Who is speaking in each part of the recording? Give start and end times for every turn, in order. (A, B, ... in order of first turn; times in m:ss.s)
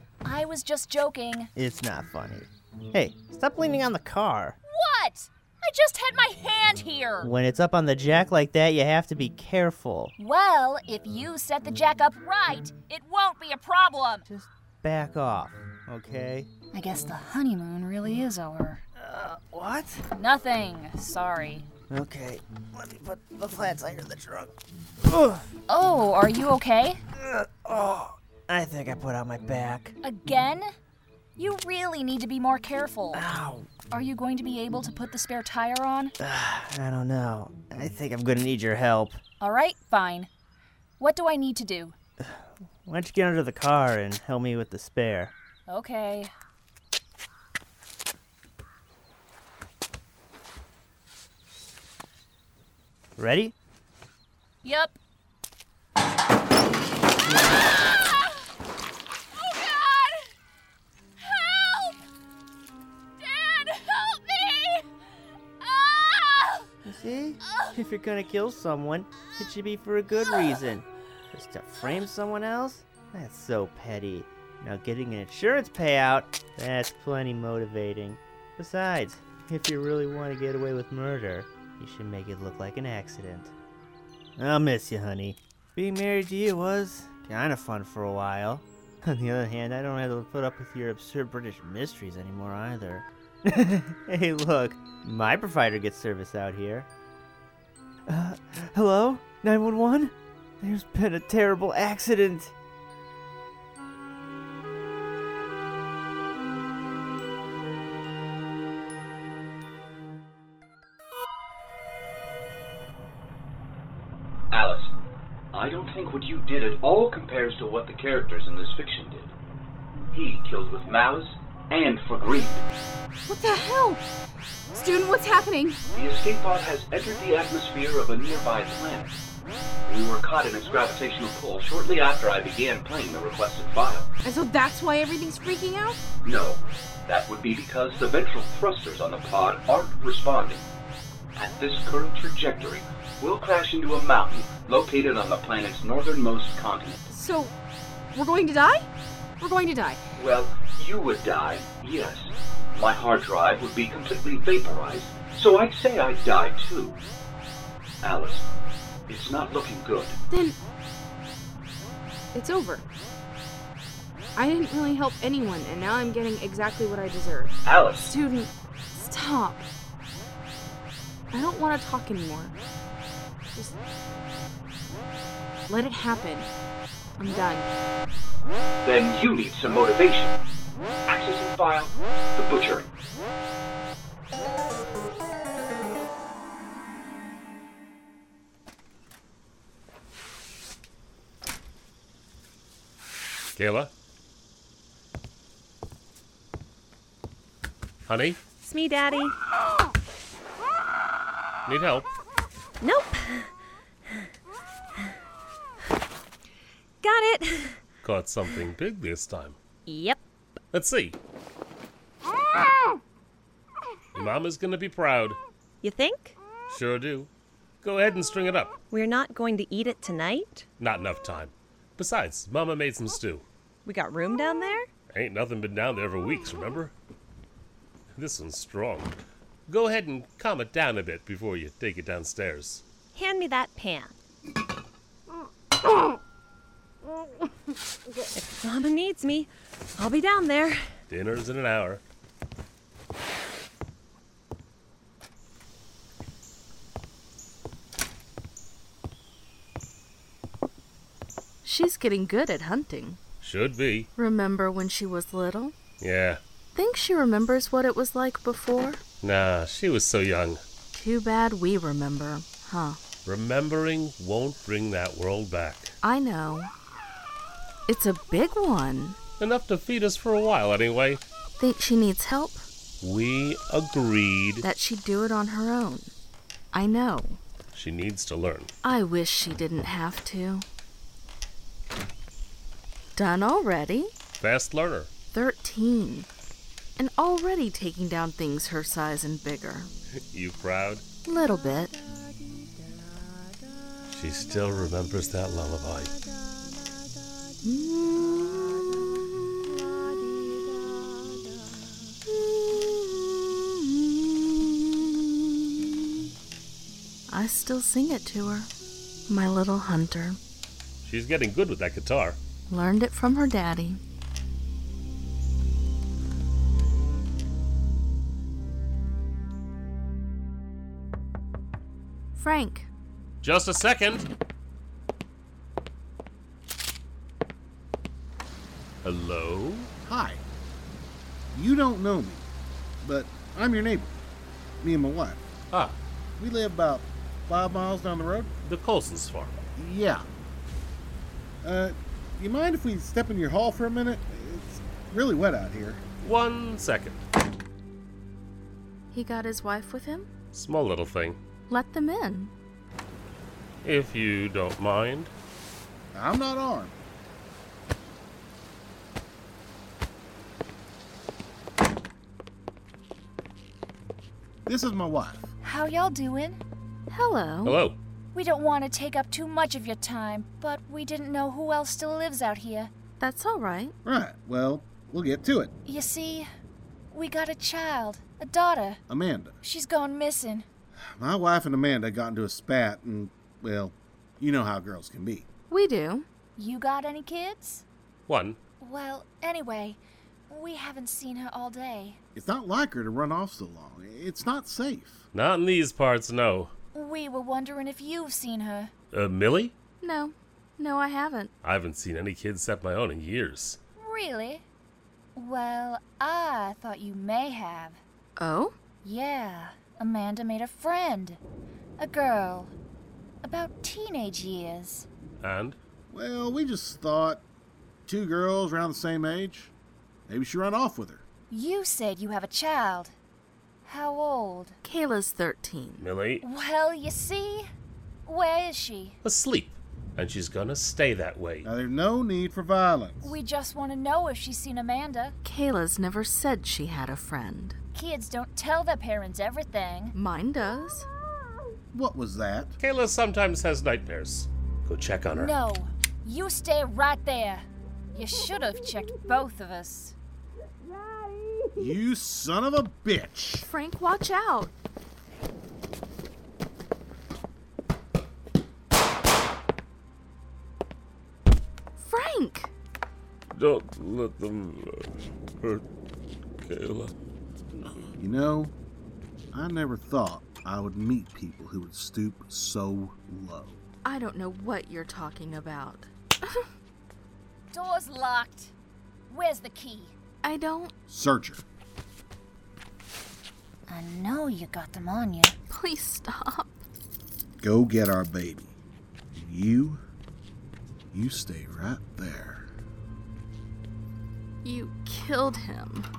0:00.2-0:01.5 A
0:01.6-0:04.6 B
0:04.6-0:07.3 A
0:07.2-0:10.1 B
0:10.2-0:14.3 A
0:14.3-0:16.5 B
0:16.7-0:18.8 A
0:19.0-0:20.0 B
0:20.1-0:21.7 A
0:21.9-0:25.5 B
0:25.7-0:27.0 A
0:27.2-0:30.0 B
0:30.0-0:30.7 A
0:31.4-0:33.2 A
0:33.1-0:33.7 B
0:33.9-0:36.1 A
0:36.2-0:39.2 B
0:39.4-0:40.3 A
0:41.0-0:41.9 A
0:42.2-0:45.3 B
0:45.7-0:46.3 A
0:53.2-0:53.6 B
0:54.6-0:55.0 A
0:59.4-1:00.3 A
1:01.2-1:02.0 A
1:03.2-1:04.8 A
1:05.6-1:06.7 A
1:06.8-1:23.5 B
1:24.4-1:36.9 B
1:38.1-1:42.5 B
1:54.5-1:54.9 C
1:55.5-1:59.3 C
2:00.1-2:02.6 C
2:03.3-2:04.0 D
2:04.7-2:05.8 D
2:05.9-2:09.2 C
2:09.9-2:14.1 C
2:14.2-2:16.0 D
2:16.2-2:20.6 C
2:21.4-2:27.0 C
2:27.1-2:27.5 D
2:28.1-2:28.9 D
2:29.4-2:30.0 D
2:30.2-2:37.0 C
2:38.0-2:38.4 C
2:39.1-2:40.2 C
2:40.3-2:40.6 D
2:42.3-2:42.8 D
2:44.4-2:47.6 D
2:47.6-2:48.1 C
2:48.1-2:49.7 D
2:51.3-2:52.6 D
2:55.7-2:56.5 D
2:57.2-2:57.7 D
2:58.8-3:00.4 C
3:01.1-3:02.9 C
3:13.6-3:13.9 E
3:18.1-3:18.4 E
3:18.6-3:19.3 F
3:21.7-3:22.1 E
3:22.8-3:23.4 F
3:27.0-3:27.8 F
3:28.0-3:29.6 E
3:29.9-3:30.2 F
3:30.7-3:31.2 E
3:34.1-3:35.4 E
3:35.8-3:36.3 F
3:36.7-3:37.3 E
3:37.8-3:38.8 E
3:38.9-3:40.6 F
3:40.8-3:43.4 E
3:43.9-3:44.9 F
3:45.1-3:46.9 E
3:48.2-3:49.1 E
3:49.7-3:52.8 E
3:53.2-3:54.1 F
3:58.4-4:00.8 F
4:01.1-4:02.0 E
4:11.6-4:13.2 G
4:13.4-4:14.1 E
4:14.2-4:15.8 G
4:16.0-4:16.4 E
4:16.8-4:19.0 G
4:19.2-4:20.6 E
4:20.9-4:23.0 G
4:23.2-4:25.9 E
4:26.0-4:26.7 G
4:27.9-4:29.2 G
4:29.4-4:31.2 E
4:31.6-4:32.6 G
4:33.0-4:34.7 E
4:34.6-4:36.1 G
4:36.7-4:37.4 G
4:37.7-4:38.7 E
4:38.8-4:40.7 G
4:43.2-4:44.1 G
4:44.4-4:45.1 E
4:45.3-4:46.3 G
4:47.0-4:49.9 G
4:50.3-4:51.0 E
4:51.3-4:52.0 G
4:54.1-4:56.1 E
4:57.6-4:58.9 G
5:02.3-5:06.0 G
5:07.3-5:08.7 G
5:09.3-5:10.4 G
5:11.0-5:12.4 E
5:12.7-5:14.0 G
5:22.4-5:22.9 G
5:23.4-5:24.3 E
5:29.0-5:29.9 E
5:30.0-5:30.4 H
5:31.5-5:32.5 H
5:33.0-5:34.2 H
5:34.8-5:35.4 H
5:35.7-5:36.0 E
5:36.4-5:38.5 H
5:38.6-5:39.6 E
5:39.8-5:40.2 H
5:41.6-5:46.0 H
5:46.2-5:47.2 E
5:49.1-5:50.3 G
5:50.5-5:51.4 E
5:51.7-5:52.5 G
5:53.8-5:55.3 E
5:56.1-5:57.0 H
6:04.7-6:05.5 H
6:05.6-6:06.6 A
6:07.1-6:07.8 G
6:07.6-6:08.0 E
6:08.3-6:12.9 A
6:13.2-6:13.9 G
6:14.0-6:15.7 H
6:15.9-6:16.5 A
6:17.1-6:19.0 A
6:19.1-6:19.5 H
6:19.6-6:20.7 A
6:21.2-6:25.5 H
6:25.7-6:26.3 G
6:26.6-6:27.8 A
6:28.3-6:28.6 E
6:28.8-6:32.2 A
6:32.4-6:35.3 H
6:35.3-6:36.7 E
6:36.9-6:38.9 A
6:39.1-6:39.8 E
6:40.0-6:41.5 G
6:41.6-6:43.8 E
6:44.0-6:44.6 A
6:45.4-6:48.0 A
6:48.4-6:48.7 G
6:49.0-6:51.4 A
6:52.0-6:52.7 A
6:53.4-6:55.1 A
6:55.4-6:55.8 E
6:56.1-6:57.4 H
6:58.1-6:59.7 H
7:00.3-7:01.2 H
7:01.5-7:03.1 A
7:03.8-7:04.8 A
7:04.8-7:06.1 G
7:06.0-7:06.4 E
7:06.4-7:07.7 A
7:08.3-7:09.2 A
7:09.2-7:11.7 E
7:11.6-7:13.4 H
7:13.2-7:15.4 A
7:15.4-7:17.8 G
7:17.9-7:20.2 A
7:20.1-7:21.1 G
7:21.9-7:22.8 H
7:22.8-7:25.5 E
7:25.4-7:30.2 A
7:31.8-7:33.7 H
7:33.6-7:34.7 G
7:42.0-7:42.7 G
7:43.5-7:45.8 E
7:46.6-7:47.1 E
7:48.2-7:48.7 H
7:49.5-7:53.8 H
7:54.0-7:56.7 G
7:57.7-7:58.7 A
7:59.3-8:00.2 A
8:00.4-8:00.9 G
8:01.1-8:01.6 H
8:03.9-8:05.6 A
8:05.7-8:06.8 G
8:07.6-8:08.8 H
8:09.4-8:10.0 H
8:11.1-8:12.7 H
8:14.6-8:16.1 G